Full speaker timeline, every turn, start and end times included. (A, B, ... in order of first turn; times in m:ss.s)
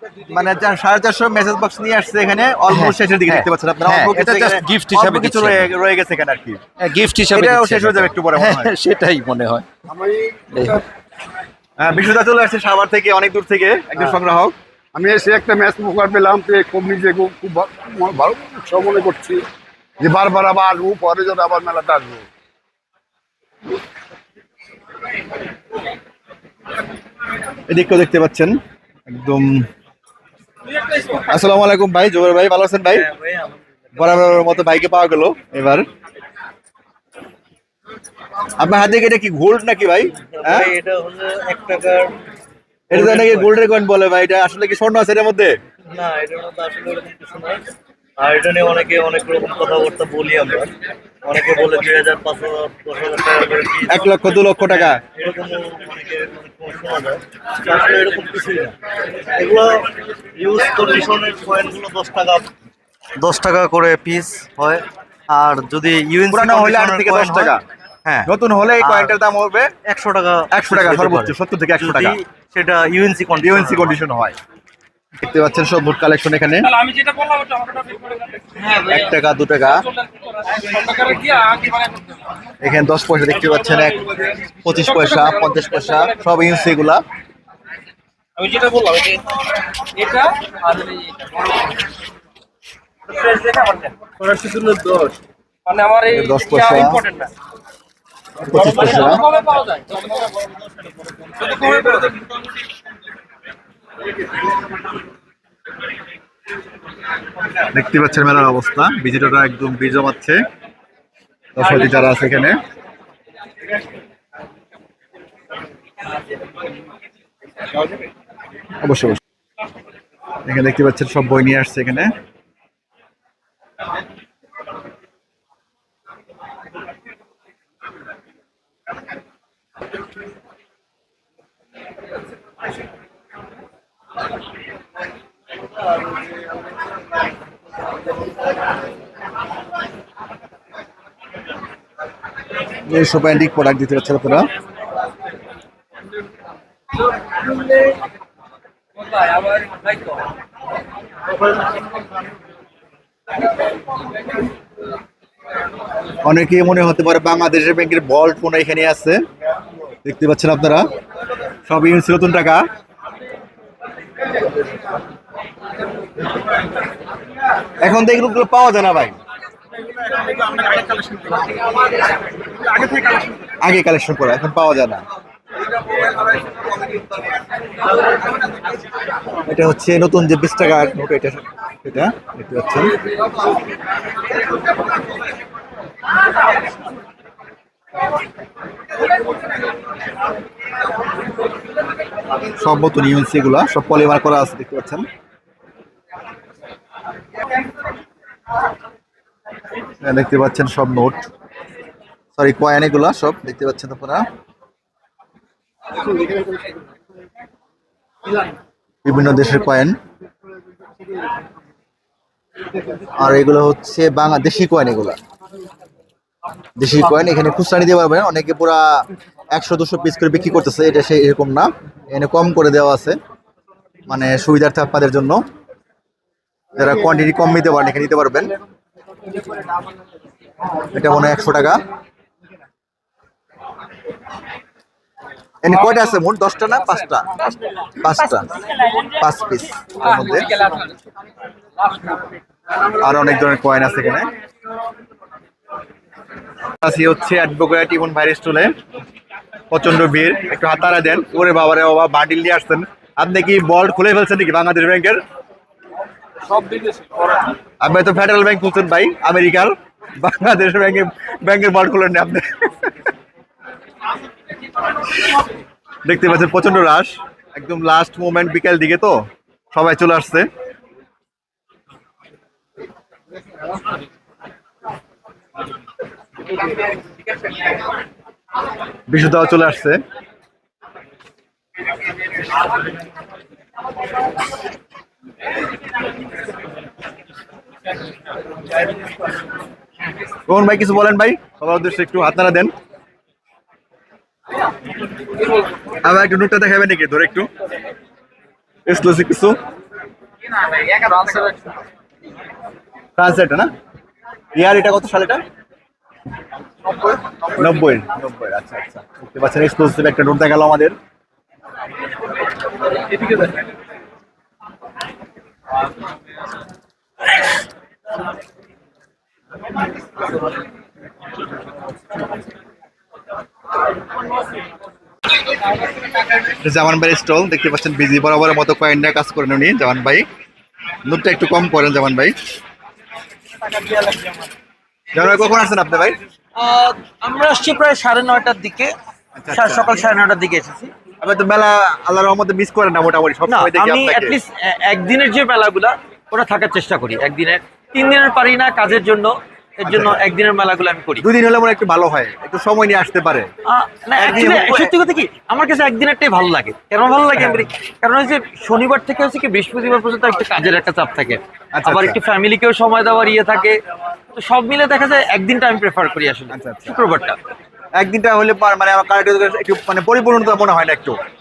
0:00.3-0:06.6 A
0:02.7-0:05.7 B
0:06.8-0:09.7 B
0:07.3-0:08.7 A
0:09.9-0:10.8 C
0:10.5-0:10.8 B
0:11.8-0:14.5 A
0:14.9-0:19.4 C
0:20.0-0:22.2 C
0:27.7-0:29.7 A
0:31.2-0:33.0 A
0:32.9-0:34.3 D
0:34.0-0:35.9 A
0:38.6-0:40.7 A
0:40.2-0:42.1 D
0:42.9-0:45.6 A
0:42.9-0:43.6 D
0:45.9-0:47.6 D
0:48.2-0:50.7 D
0:51.2-0:54.1 D
0:53.9-0:55.0 A
0:54.7-0:58.7 D
0:59.3-1:02.5 D
1:03.2-1:09.2 D
1:06.3-1:07.6 A
1:08.3-1:09.7 A
1:09.8-1:14.0 D
1:10.5-1:12.2 A
1:13.4-1:14.4 A
1:15.2-1:16.7 A
1:16.6-1:22.2 E
1:18.7-1:19.8 A
1:22.6-1:24.1 A
1:24.1-1:26.4 E
1:24.6-1:27.0 A
1:28.4-1:29.3 E
1:29.9-1:31.5 E
1:33.1-1:35.1 E
1:35.6-1:37.3 E
1:36.1-1:37.0 A
1:38.4-1:39.3 A
1:38.5-1:40.5 E
1:41.3-1:42.3 E
1:47.7-1:50.4 A
1:51.5-1:52.6 A
1:58.8-1:59.2 A
2:00.4-2:02.1 A
2:22.8-2:24.5 A
2:27.6-2:27.9 E
2:29.0-2:30.2 E
2:36.2-2:39.2 A
2:40.0-2:40.9 A
2:41.7-2:42.7 A
2:47.8-2:49.2 A
2:50.1-2:51.7 E
2:52.7-2:53.3 E
2:53.6-2:55.0 A
2:59.4-3:02.9 A
3:12.6-3:15.0 A
3:20.0-3:21.2 A
3:22.4-3:24.3 A
3:29.0-3:30.0 A
3:33.2-3:35.2 A
3:36.8-3:43.2 A
3:44.1-3:45.4 A
3:46.8-3:48.5 A
3:50.9-3:51.8 A
3:55.6-3:57.3 A
3:55.7-3:56.0 E
3:56.8-3:57.6 E
3:58.0-3:58.5 A
3:58.2-3:59.2 E
3:59.2-4:00.5 A
4:00.0-4:01.0 E
4:01.8-4:02.2 E
4:03.0-4:04.3 A
4:06.8-4:08.7 A
4:09.7-4:15.2 A
4:16.4-4:17.5 E
4:17.8-4:22.9 A
4:26.0-4:30.5 A
4:39.1-4:40.0 A
4:50.5-4:52.7 A
4:56.0-4:57.5 A
4:58.8-4:59.6 A
5:00.5-5:01.8 E
5:03.2-5:03.7 A
5:04.5-5:05.4 A
5:07.5-5:11.0 A
5:13.1-5:13.6 E
5:26.6-5:30.2 A
5:31.0-5:32.4 A
5:35.1-5:36.2 A
5:36.6-5:38.9 F
5:39.4-5:39.9 A
5:39.5-5:40.9 F
5:41.2-5:44.4 A
5:43.4-5:51.2 F
5:49.9-5:50.2 A
5:51.2-5:53.5 A
5:53.6-6:03.8 F
5:54.2-5:54.9 A
6:01.7-6:02.2 A
6:04.3-6:07.4 F
6:06.5-6:07.0 A
6:08.0-6:11.2 A